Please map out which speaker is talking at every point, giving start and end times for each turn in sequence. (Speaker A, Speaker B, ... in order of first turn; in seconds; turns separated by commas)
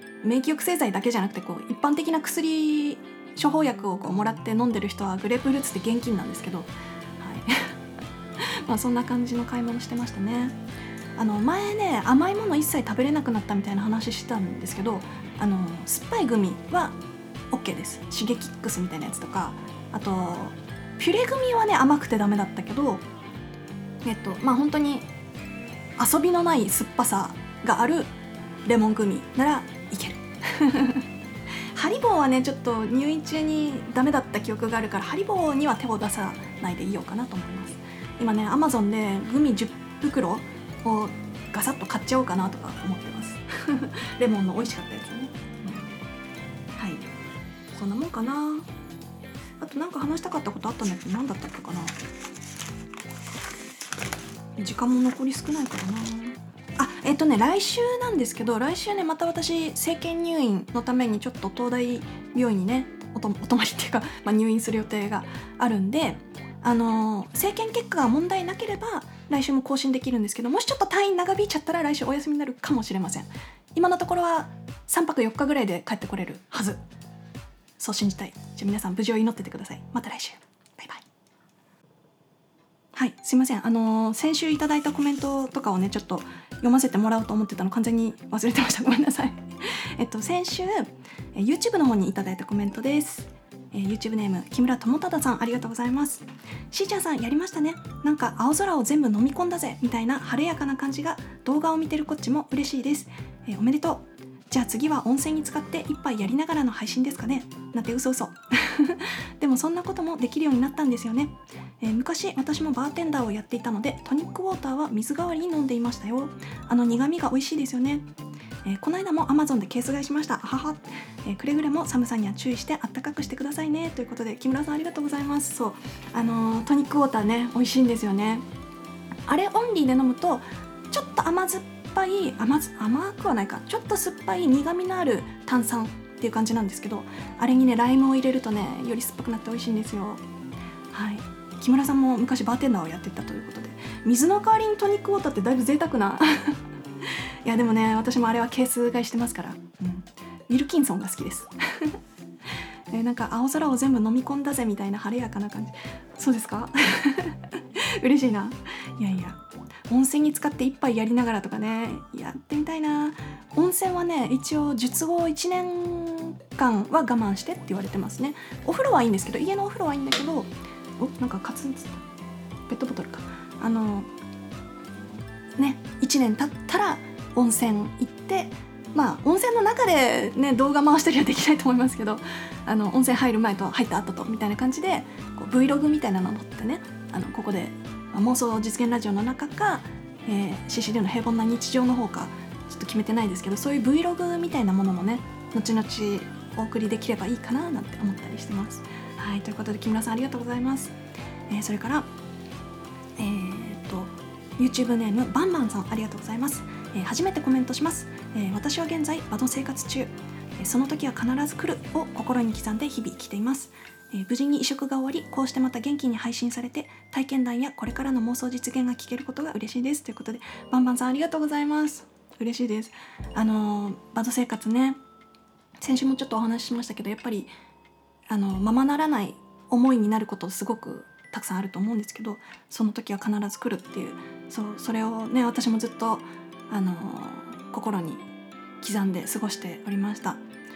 Speaker A: 0.2-7.7, Speaker A: 8.4-10.6, Speaker A: 11.2-17.0, Speaker A: 17.5-23.0, Speaker A: 24.1-25.1, Speaker A: 26.0-28.1, Speaker A: 28.6-31.1, Speaker A: 31.7-45.9, Speaker A: 46.8-47.0, Speaker A: 47.7-48.7, Speaker A: 49.6-52.0, Speaker A: 54.6-76.8, Speaker A: 77.8-81.0, Speaker A: 82.9-118.1, Speaker A: 118.6-128.4, Speaker A: 129.3-140.2, Speaker A: 140.9-152.0, Speaker A: 152.9-172.0, Speaker A: 172.7-174.1, Speaker A: 175.6-201.0, Speaker A: 201.5-202.1, Speaker A: 203.2-225.0, Speaker A: 225.8-227.5, Speaker A: 228.3-238.2, Speaker A: 238.8-240.4